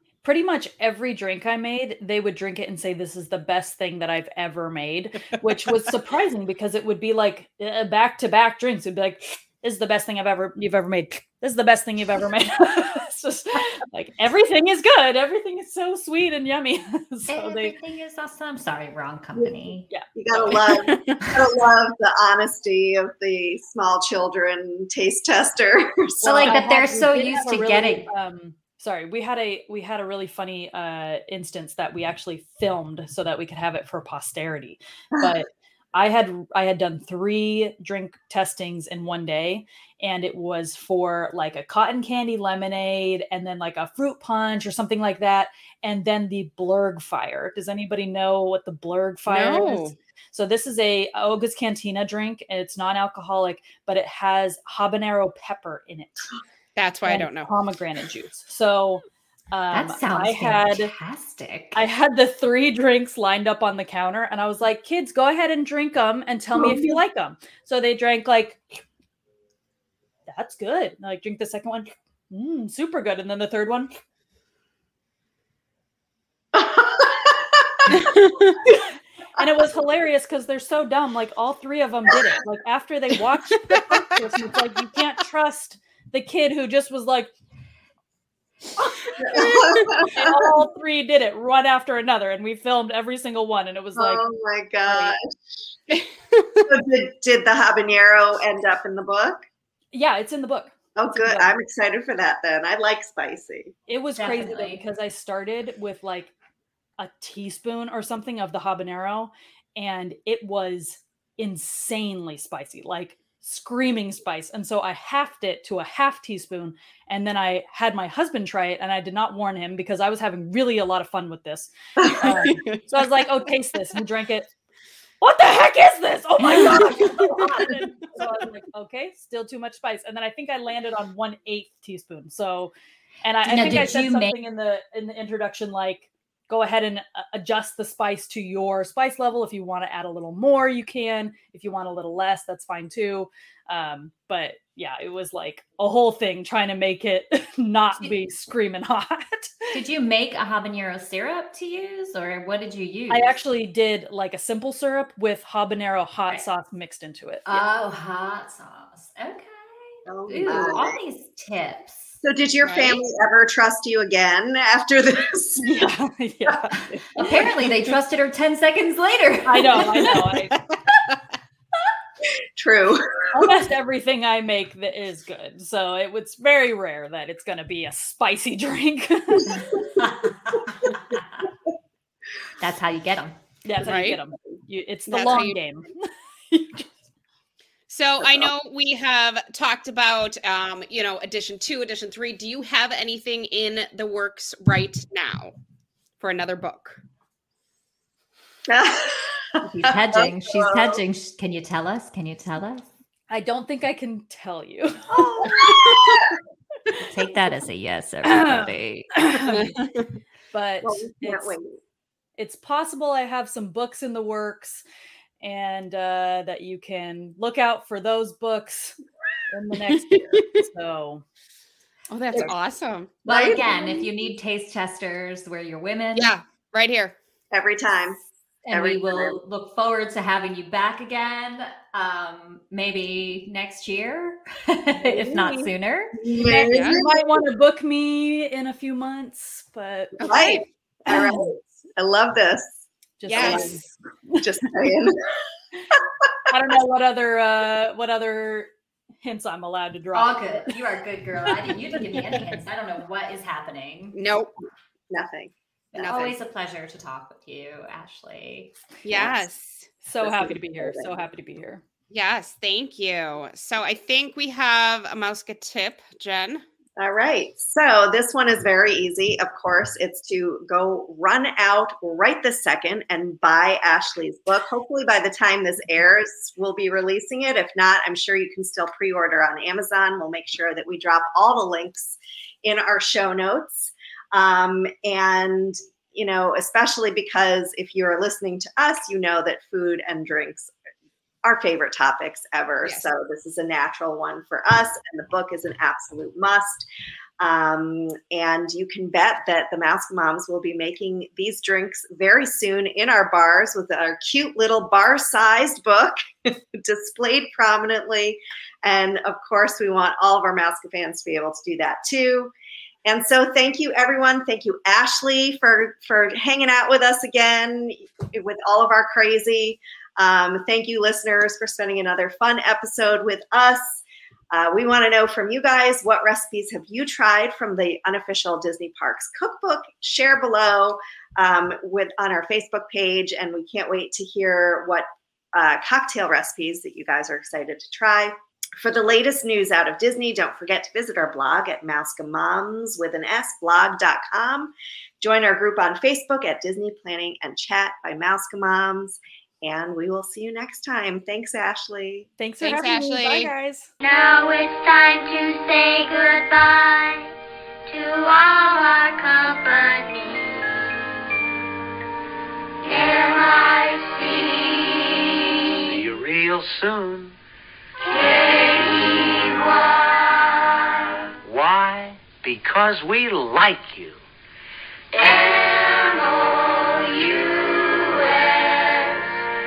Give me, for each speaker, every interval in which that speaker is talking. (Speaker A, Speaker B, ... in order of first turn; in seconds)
Speaker A: 0.2-17.7, 26.3-56.4, 57.1-60.9, 61.7-68.6, 70.3-73.9, 79.4-87.3, 88.8-94.2, 94.8-95.2, 99.9-101.5, 103.9-106.3, 107.0-124.5, 125.2-149.8, 153.1-157.6, 165.6-166.9, 169.5-170.6, 173.3-179.8, 183.6-186.9, 203.3-206.3, 208.2-209.8, 210.5-211.6, 212.4-214.8, 215.4-219.0, 219.5-221.2, 235.1-235.7, 236.4-240.2, 241.1-241.6, 243.2-244.3, 246.5-248.7, 249.2-250.8, 260.0-261.8, 352.4-353.9
Speaker B: 17.3-19.9, 26.2-28.1, 59.7-61.8, 104.2-104.8, 133.4-134.4, 149.7-153.3, 157.5-162.2, 167.1-170.0, 180.0-181.4, 182.6-183.4, 199.6-202.9, 207.0-209.1, 223.2-226.3, 228.7-236.2, 250.1-254.2, 255.9-258.7
Speaker C: 19.4-26.6, 66.5-67.0, 76.5-77.9, 89.2-90.7, 94.0-95.3, 96.7-99.4, 101.0-103.7, 122.0-122.5, 160.1-161.0, 162.2-165.8, 166.5-167.3, 172.6-173.6, 179.5-179.9, 188.2-188.5, 198.7-201.0, 205.4-206.3, 210.8-211.8, 223.2-224.1, 227.5-229.4, 236.2-237.4, 240.2-242.8, 243.3-243.8, 244.4-245.2, 245.9-246.3, 255.1-255.5, 260.2-261.2, 267.0-290.7, 291.4-296.9, 297.4-312.5, 313.1-352.3
Speaker D: 20.7-21.2, 49.3-49.9, 56.8-57.5, 77.9-78.6, 83.7-84.0, 89.4-89.7, 95.9-96.7, 122.3-122.8, 126.6-127.9, 162.6-163.0, 183.9-184.2, 185.1-185.6, 187.9-195.5, 196.2-197.0, 209.5-210.1, 219.8-220.6, 222.1-223.1, 226.2-227.2, 236.7-237.0, 240.2-240.6, 243.3-243.8, 254.2-254.5, 256.0-256.4, 259.1-259.9, 262.1-266.6, 352.6-353.5
Speaker E: 354.0-357.3, 357.9-360.6, 362.8-365.8, 368.0-370.9, 375.1-379.3
Speaker F: 365.9-367.4, 371.4-374.2